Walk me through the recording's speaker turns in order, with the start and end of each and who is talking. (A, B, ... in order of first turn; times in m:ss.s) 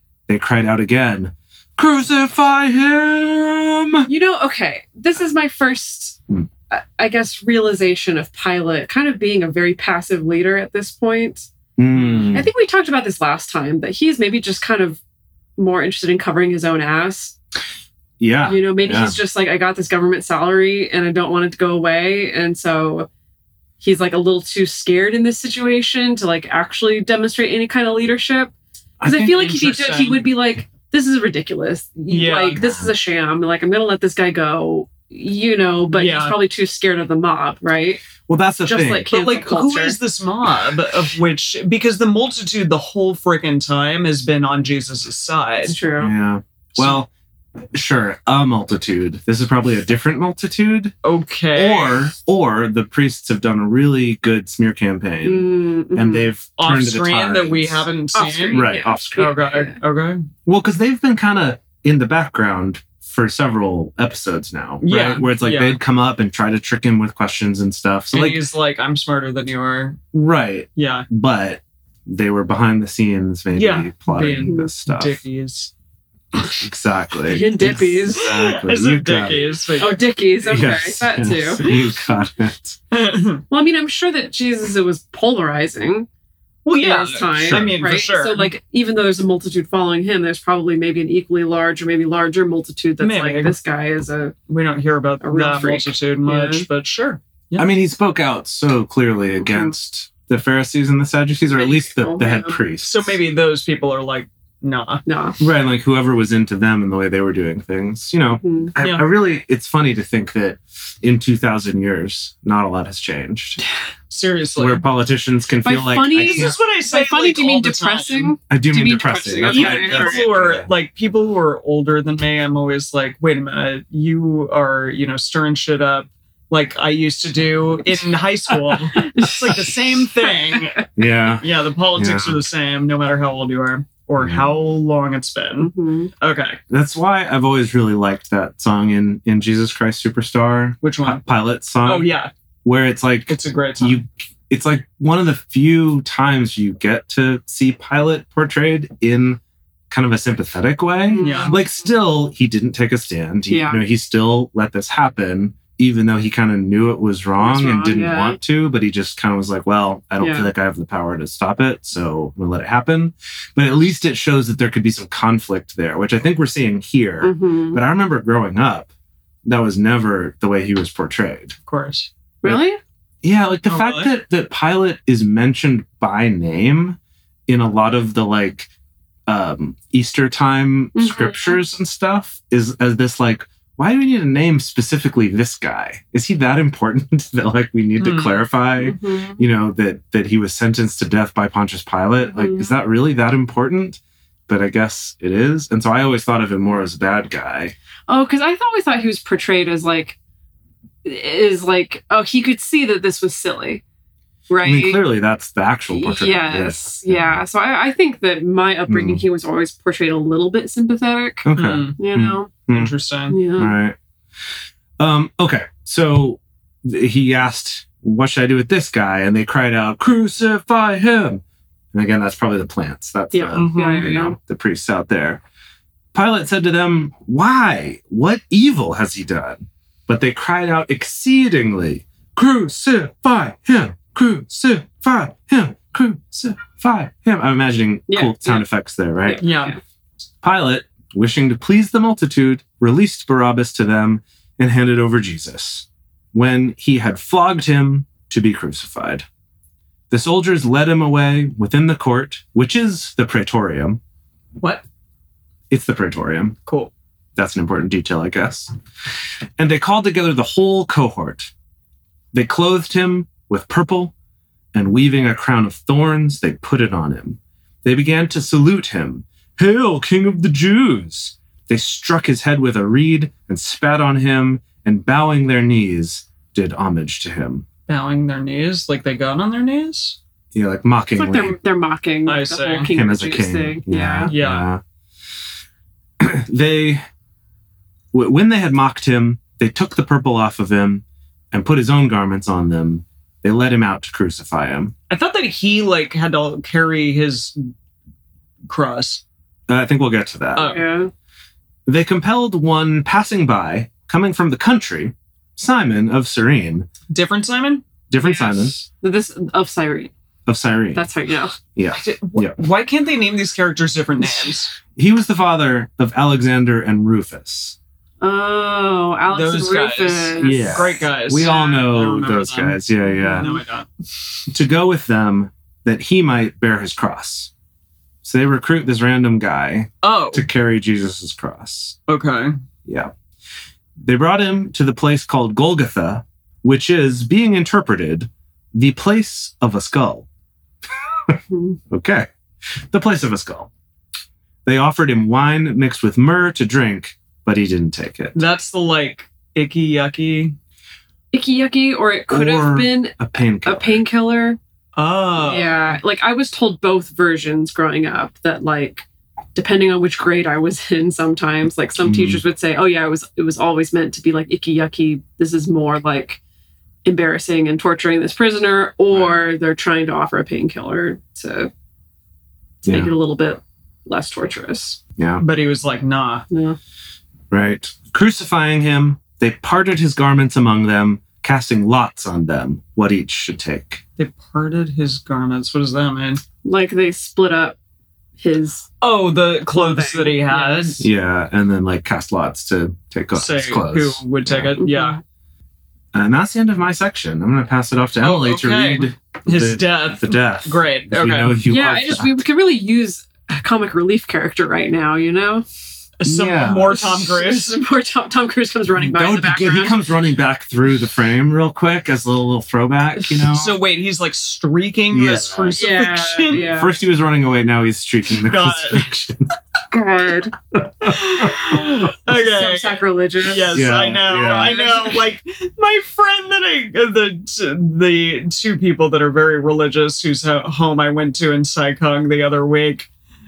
0:00.3-0:04.1 A
0:04.1-0:11.5 B
0:11.8-0:12.5 A
0:11.9-0:12.4 C
0:12.3-0:15.0 B
0:15.6-0:17.4 B
0:18.2-0:19.2 A
0:18.4-0:23.1 B
0:23.8-0:28.5 B
0:29.0-0:30.2 C
0:29.0-0:38.0 B
0:32.1-0:32.6 C
0:32.6-0:32.9 A
0:35.9-0:36.4 C
0:38.3-0:39.1 A
0:38.6-0:40.0 B
0:39.1-0:45.8 C
0:45.6-0:46.1 B
0:46.0-0:47.1 A
0:47.7-0:51.0 A
0:51.0-0:52.0 C
0:51.6-0:57.9 A
0:55.2-0:56.3 B
0:56.6-1:00.3 C
0:58.2-0:59.8 B
0:58.5-0:59.3 A
1:00.5-1:08.4 A
1:04.8-1:05.8 C
1:08.1-1:10.0 C
1:10.1-1:15.2 A
1:10.8-1:11.1 C
1:13.6-1:15.7 C
1:14.4-1:14.7 B
1:16.6-1:19.5 A
1:17.3-1:18.3 B
1:18.2-1:20.0 C
1:19.8-1:21.7 B
1:20.4-1:22.8 A
1:22.9-1:23.4 C
1:23.5-1:26.1 B
1:26.6-1:28.5 C
1:26.8-1:34.4 B
1:27.5-1:27.8 A
1:33.0-1:33.6 C
1:34.5-1:37.7 C
1:35.2-1:36.7 B
1:37.6-1:43.2 A
1:39.4-1:39.7 B
1:41.6-1:42.6 B
1:42.8-1:45.0 C
1:45.1-1:45.4 B
1:45.4-1:53.6 A
1:48.4-1:48.7 B
1:48.8-1:49.1 C
1:54.1-1:54.8 C
1:54.6-1:56.6 A
1:55.6-2:00.3 B
1:56.2-1:58.4 C
1:58.5-2:00.7 A
1:59.4-2:16.6 C
2:09.0-2:10.8 B
2:11.0-2:12.4 A
2:14.2-2:14.5 A
2:15.6-2:16.1 B
2:16.7-2:22.1 A
2:20.8-2:21.2 C
2:21.8-2:22.3 C
2:22.6-2:48.9 A
2:23.3-2:24.0 C
2:31.0-2:31.6 B
2:31.2-2:31.6 C
2:33.5-2:33.8 B
2:37.4-2:38.4 B
2:40.2-2:40.5 B
2:47.2-2:47.8 B
2:49.4-2:51.6 A
2:51.7-2:52.1 C
2:52.4-2:52.8 B
2:53.2-2:58.7 A
2:53.7-2:54.1 C
2:59.3-3:17.8 A
3:01.0-3:01.6 B
3:08.0-3:08.4 C
3:08.8-3:09.4 B
3:12.3-3:12.7 B
3:18.1-3:20.2 B
3:21.0-3:23.8 B
3:24.5-3:25.0 B
3:24.6-3:27.4 A
3:25.9-3:31.5 B
3:28.9-3:29.2 A
3:31.4-3:32.9 A
3:31.6-3:32.0 C
3:32.0-3:32.5 B
3:32.7-3:33.4 C
3:33.3-3:33.8 B
3:33.5-3:34.0 A
3:35.0-3:41.4 A
3:41.9-3:45.4 A
3:43.3-3:44.4 B
3:43.6-3:44.1 C
3:46.1-3:59.4 A
3:58.1-3:58.7 B
3:59.2-3:59.8 B
3:59.4-3:59.8 C
4:00.4-4:09.3 A
4:10.1-4:14.0 A
4:14.6-4:14.8 C
4:15.7-4:16.6 A
4:16.7-4:16.9 C
4:17.4-4:18.7 A
4:19.6-4:21.5 A
4:22.3-4:24.1 A
4:24.7-4:37.6 A
4:37.9-4:40.2 C
4:40.5-4:41.6 A
4:41.2-4:44.3 B
4:42.3-4:42.9 C
4:42.9-4:44.8 A
4:44.3-4:44.7 C
4:46.2-4:47.0 A
4:48.1-4:54.9 A
4:55.1-4:57.6 C
4:58.6-4:59.2 C
4:59.7-5:00.7 A
5:00.6-5:00.8 C
5:00.6-5:01.1 B
5:01.9-5:06.9 A
5:07.1-5:08.8 C
5:08.1-5:08.8 A
5:09.0-5:10.1 B
5:10.5-5:11.1 A
5:10.9-5:11.6 B
5:11.8-5:12.6 A
5:12.0-5:14.7 C
5:15.0-5:17.8 A
5:18.2-5:20.9 B
5:19.3-5:22.8 C
5:20.4-5:23.5 A
5:23.1-5:23.6 B
5:23.3-5:23.9 C
5:24.5-5:27.5 A
5:28.2-5:32.0 A
5:30.0-5:30.5 C
5:32.1-5:32.5 C
5:32.9-5:33.1 A
5:34.0-5:40.3 A
5:41.5-5:41.8 B
5:41.9-5:43.7 A
5:44.6-5:48.4 A
5:48.4-5:50.6 C
5:51.3-5:54.6 B
5:52.3-5:54.0 A
5:55.0-5:55.8 C
5:55.4-6:06.4 B
6:02.0-6:02.4 A
6:07.0-6:11.7 B
6:09.1-6:09.4 A
6:12.8-6:15.0 B
6:12.8-6:13.1 A
6:15.2-6:15.4 A
6:15.4-6:16.5 C
6:16.5-6:16.8 B
6:17.5-6:24.0 A
6:24.2-6:26.4 C
6:26.6-6:27.8 B
6:28.4-6:28.9 B
6:29.0-6:31.1 C
6:29.7-6:31.0 B
6:31.0-6:34.7 A
6:33.3-6:35.2 C
6:34.8-6:35.2 B
6:36.1-6:42.4 A
6:38.2-6:41.6 C
6:41.7-6:45.6 B
6:46.2-6:47.8 C
6:46.2-6:47.1 A
6:46.9-6:50.0 B
6:48.9-6:53.7 A
6:53.5-6:56.7 C
6:55.1-6:55.8 A
6:55.8-6:57.0 B
6:56.5-6:59.5 A
6:58.4-6:59.1 C
6:59.9-7:00.6 B
7:00.7-7:01.9 A
7:01.1-7:13.1 C
7:02.3-7:03.8 B
7:03.7-7:04.8 A
7:04.4-7:05.2 B